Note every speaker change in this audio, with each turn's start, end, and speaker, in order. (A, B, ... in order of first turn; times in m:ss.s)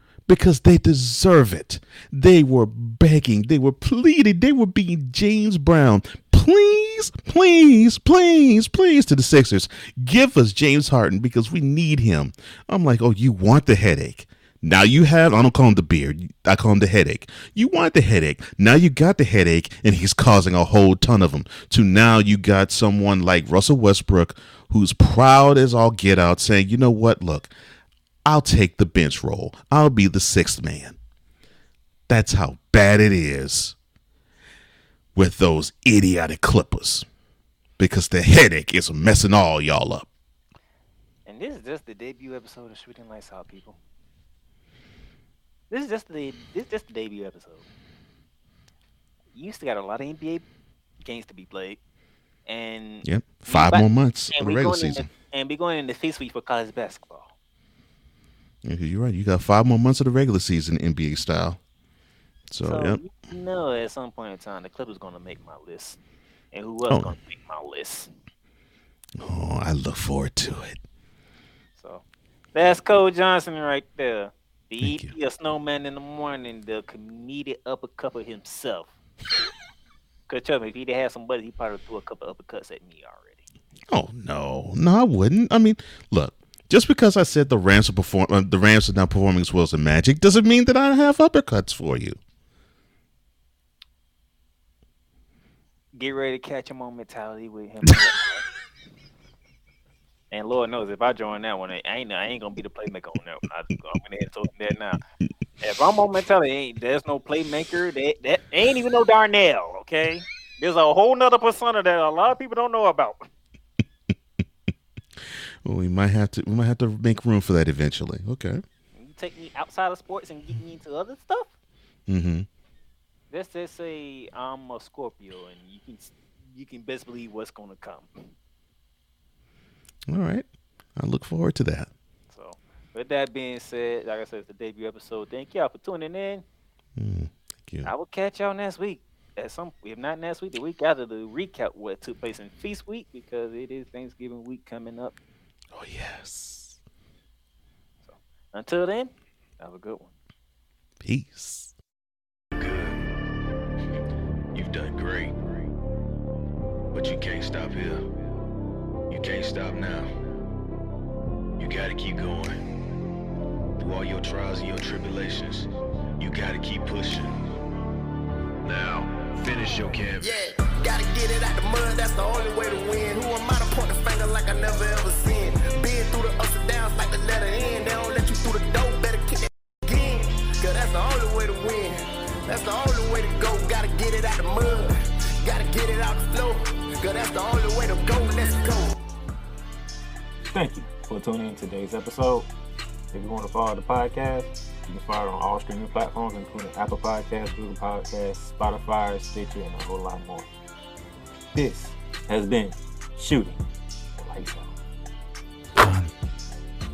0:00.3-0:27.5 A
0:28.2-0:31.0 A
0:32.1-0:33.7 A
0:35.1-0:37.0 A
0:37.8-0:40.1 A
0:41.2-0:43.8 B
0:45.7-0:47.6 B
0:49.3-0:50.4 B
0:51.0-0:51.8 B
0:52.5-0:57.3 B
0:53.0-0:55.1 A
0:58.6-1:01.6 A
1:02.5-1:03.0 A
1:02.6-1:06.0 B
1:06.5-1:08.1 B
1:06.9-1:07.1 A
1:09.2-1:10.8 A
1:11.8-1:12.0 B
1:12.5-1:18.9 B
1:14.8-1:15.1 A
1:20.3-1:23.4 B
1:23.9-1:32.2 A
1:35.9-1:38.4 B
1:40.3-1:45.0 B
1:45.6-1:53.3 B
1:55.2-1:58.6 A
1:58.9-2:01.5 B
2:02.1-2:02.5 A
2:03.3-2:08.3 B
2:10.1-2:11.9 A
2:12.3-2:16.4 B
2:17.0-2:17.9 A
2:17.8-2:25.2 B
2:25.7-2:26.8 A
2:28.0-2:30.1 B
2:31.0-2:31.7 A
2:32.5-2:33.1 C
2:34.5-2:35.4 C
2:36.9-2:38.0 C
2:39.1-2:40.0 C
2:41.6-2:42.6 C
2:43.8-2:45.7 C
2:46.2-2:47.4 C
2:48.6-2:50.3 C
2:50.2-3:04.9 D
3:05.4-3:09.0 D
3:10.5-3:12.4 B
3:13.1-3:20.4 B
3:21.6-3:23.6 B
3:24.2-3:24.6 B